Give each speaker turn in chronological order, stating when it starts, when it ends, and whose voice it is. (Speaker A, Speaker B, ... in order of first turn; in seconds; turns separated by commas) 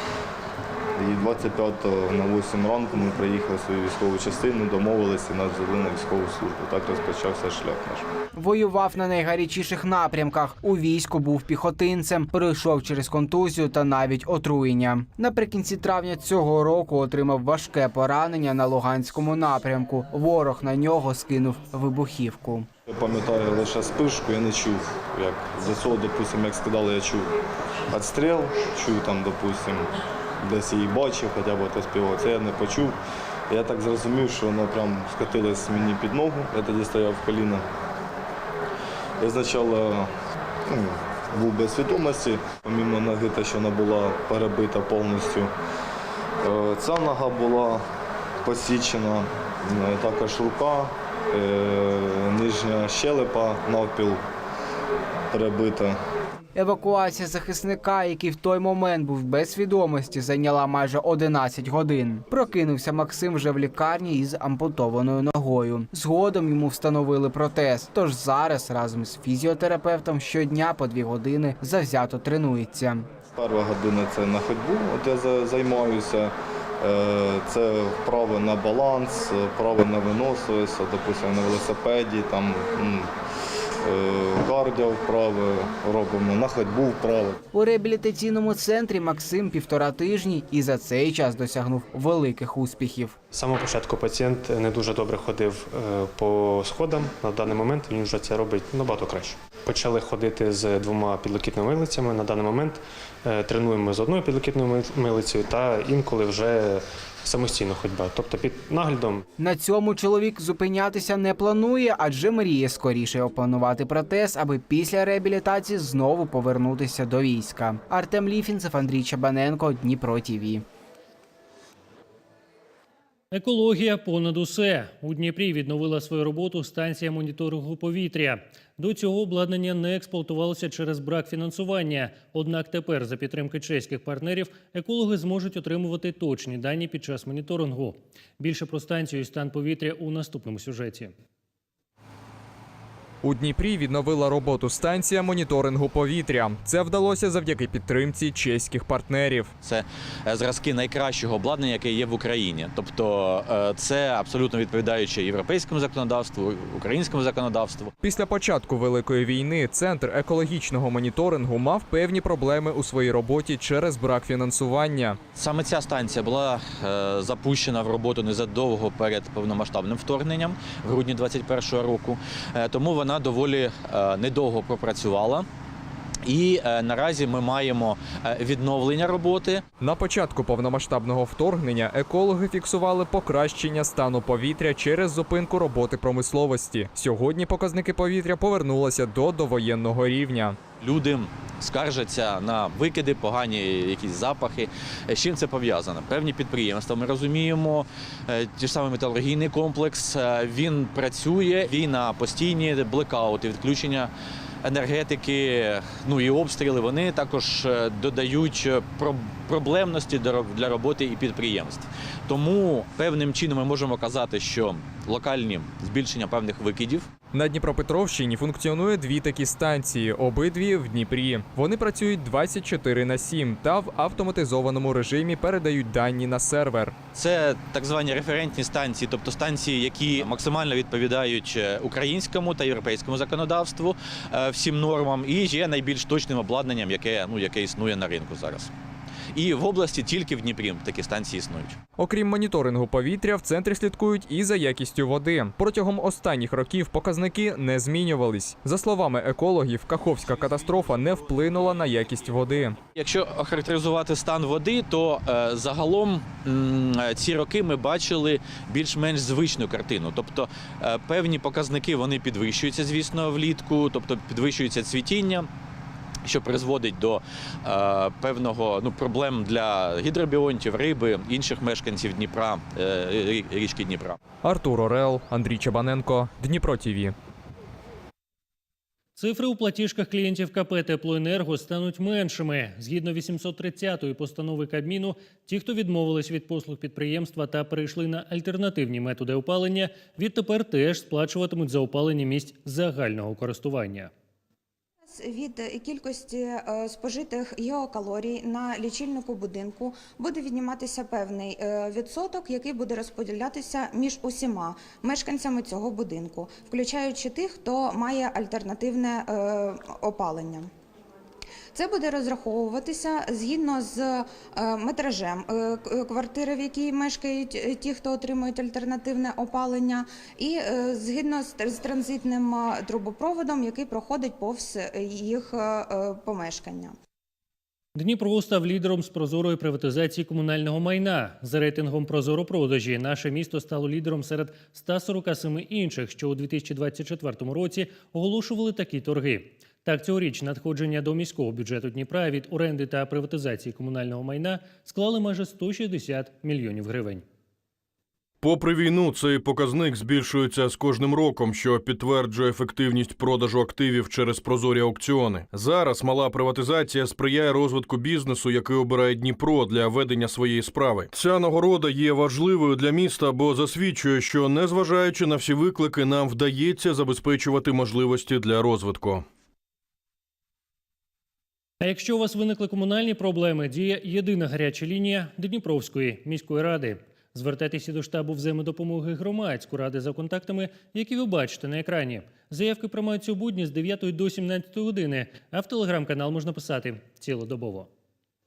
Speaker A: 1.0-8.1, Speaker B: 8.3-22.7, Speaker A: 22.9-27.3, Speaker A: 27.9-29.9, Speaker A: 30.4-33.0, Speaker A: 33.5-37.6, Speaker A: 39.2-40.1, Speaker A: 40.7-45.5, Speaker A: 46.4-47.8, Speaker A: 48.4-54.2, Speaker A: 55.3-56.0, Speaker B: 56.5-73.1, Speaker A: 73.4-83.1, Speaker A: 83.8-87.4, Speaker B: 87.5-93.2, Speaker C: 93.3-109.3, Speaker B: 109.4-120.7, Speaker D: 123.3-141.1, Speaker E: 143.2-149.5, Speaker F: 149.6-157.9, Speaker E: 158.0-165.2, Speaker F: 165.3-175.5, Speaker F: 176.2-179.7, Speaker E: 179.8-190.6, Speaker F: 190.8-204.1, Speaker F: 204.6-217.1, Speaker E: 217.3-227.0, Speaker F: 227.1-238.7, Speaker F: 239.3-241.8, Speaker E: 242.0-252.8, Speaker F: 253.0-265.5, Speaker F: 266.2-274.2, Speaker E: 274.4-277.1, Speaker D: 279.2-294.1, Speaker G: 295.1-310.7, Speaker G: 311.7-326.9, Speaker D: 328.0-347.2, Speaker H: 348.4-369.3, Speaker D: 371.8-387.9